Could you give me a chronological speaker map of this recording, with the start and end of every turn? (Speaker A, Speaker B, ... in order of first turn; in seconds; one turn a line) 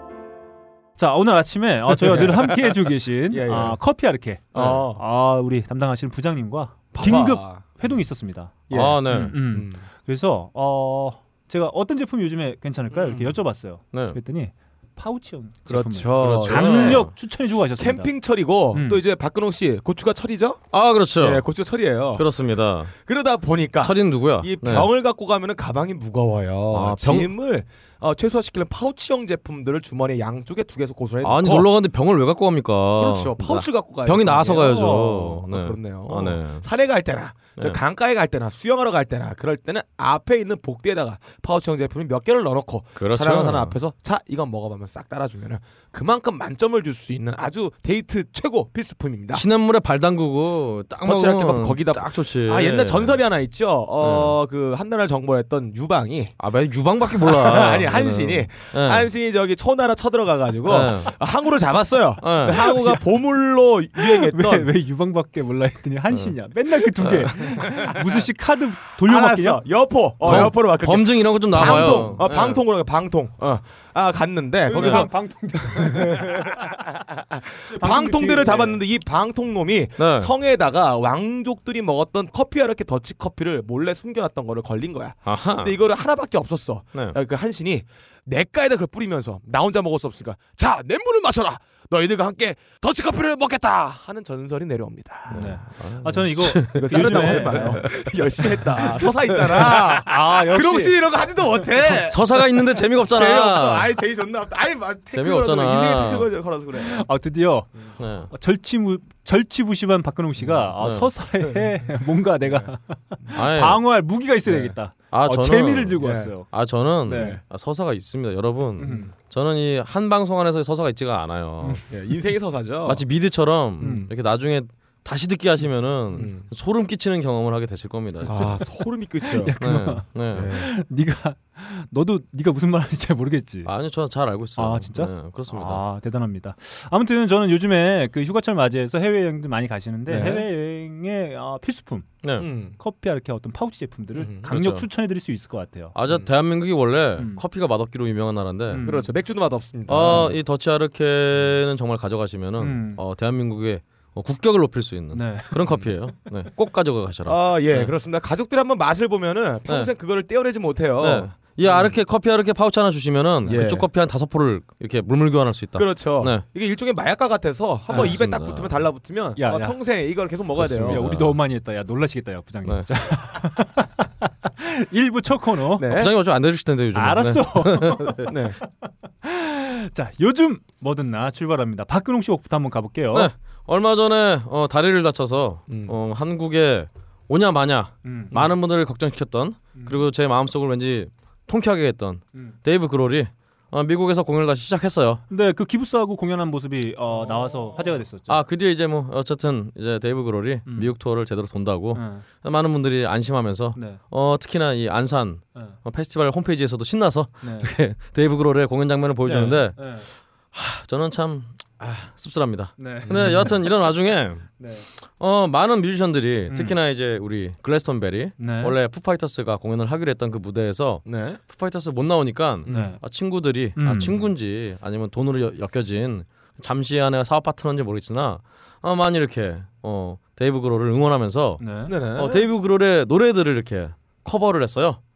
Speaker A: 1.0-8.5
Speaker B: 2.0-2.7
Speaker B: 3.3-3.8
Speaker B: 4.5-5.0
Speaker B: 6.9-7.9
Speaker B: 8.7-9.8
Speaker C: 8.7-9.3
Speaker A: 9.1-18.1
Speaker B: 12.9-13.4
Speaker B: 15.7-17.1
Speaker C: 16.2-17.1
Speaker B: 17.8-20.6
Speaker A: 18.7-19.0
Speaker C: 20.7-21.5
Speaker B: 21.1-22.3
Speaker C: 22.1-22.9
Speaker B: 22.9-31.7
Speaker C: 23.8-24.9
Speaker C: 26.7-27.3
Speaker C: 31.2-36.6
Speaker B: 33.0-49.5
Speaker C: 43.0-43.8
Speaker C: 49.3-53.2
Speaker B: 51.0-56.3
Speaker C: 54.0-54.4
Speaker C: 56.4-59.1
Speaker B: 57.0-64.7
Speaker C: 60.7-61.1
Speaker C: 62.2-62.7
Speaker A: 62.5-63.0
Speaker A: 64.0-69.6
Speaker C: 67.0-68.0
Speaker B: 69.0-95.5
Speaker C: 70.2-72.6
Speaker A: 70.2-70.5
Speaker A: 71.6-72.2
Speaker A: 74.7-76.8
Speaker C: 74.8-75.0
Speaker A: 77.6-78.8
Speaker C: 80.0-80.3
Speaker C: 85.2-85.7
Speaker A: 95.3-97.9
Speaker C: 95.3-98.1
Speaker B: 96.6-107.0
Speaker A: 99.6-101.0
Speaker C: 102.1-103.9
Speaker C: 105.1-106.3
Speaker A: 106.8-116.5
Speaker C: 108.0-108.3
Speaker B: 110.4-110.7
Speaker C: 110.8-111.1
Speaker B: 111.4-111.7
Speaker B: 112.4-112.7
Speaker C: 113.3-113.8
Speaker B: 114.5-114.7
Speaker C: 115.1-121.8
Speaker B: 116.0-116.3
Speaker A: 117.1-117.4
Speaker B: 117.1-117.4
Speaker A: 118.8-119.1
Speaker B: 118.8-119.1
Speaker B: 121.9-123.0
Speaker C: 122.8-128.6
Speaker A: 123.8-124.1
Speaker B: 126.2-126.5
Speaker B: 128.2-129.6
Speaker A: 129.2-133.7
Speaker C: 129.6-130.5
Speaker B: 130.1-130.7
Speaker C: 133.7-135.8
Speaker A: 134.6-142.1
Speaker B: 140.1-140.5
Speaker B: 142.4-142.8
Speaker A: 142.8-145.9
Speaker B: 144.2-144.5
Speaker C: 144.5-144.8
Speaker C: 145.9-148.8
Speaker A: 147.2-147.4
Speaker A: 148.7-149.1
Speaker B: 148.8-150.3
Speaker C: 149.9-157.9
Speaker A: 150.0-150.3
Speaker A: 152.6-153.0
Speaker A: 155.1-155.5
Speaker B: 157.2-161.9
Speaker C: 161.0-166.4
Speaker B: 163.4-163.9
Speaker B: 165.8-171.1
Speaker A: 167.9-168.2
Speaker C: 167.9-168.7
Speaker A: 169.3-169.8
Speaker C: 170.6-171.4
Speaker A: 170.7-175.9
Speaker B: 175.8-176.1
Speaker C: 175.9-178.3
Speaker A: 176.9-183.3
Speaker B: 178.3-178.6
Speaker C: 183.1-195.2
Speaker B: 185.7-185.9
Speaker A: 188.0-188.3
Speaker A: 189.8-190.1
Speaker A: 195.3-198.4
Speaker C: 198.3-214.6
Speaker A: 200.7-200.9
Speaker A: 201.9-202.2
Speaker A: 203.7-204.0
Speaker A: 207.4-207.7
Speaker A: 209.2-210.1
Speaker A: 212.8-213.6
Speaker B: 213.0-213.5
Speaker A: 214.6-214.8
Speaker C: 215.2-231.6
Speaker A: 218.4-218.8
Speaker B: 221.0-221.4
Speaker B: 222.6-222.9
Speaker A: 222.7-223.0
Speaker A: 223.8-224.2
Speaker A: 231.6-231.9
Speaker B: 231.9-232.5
Speaker C: 232.1-235.0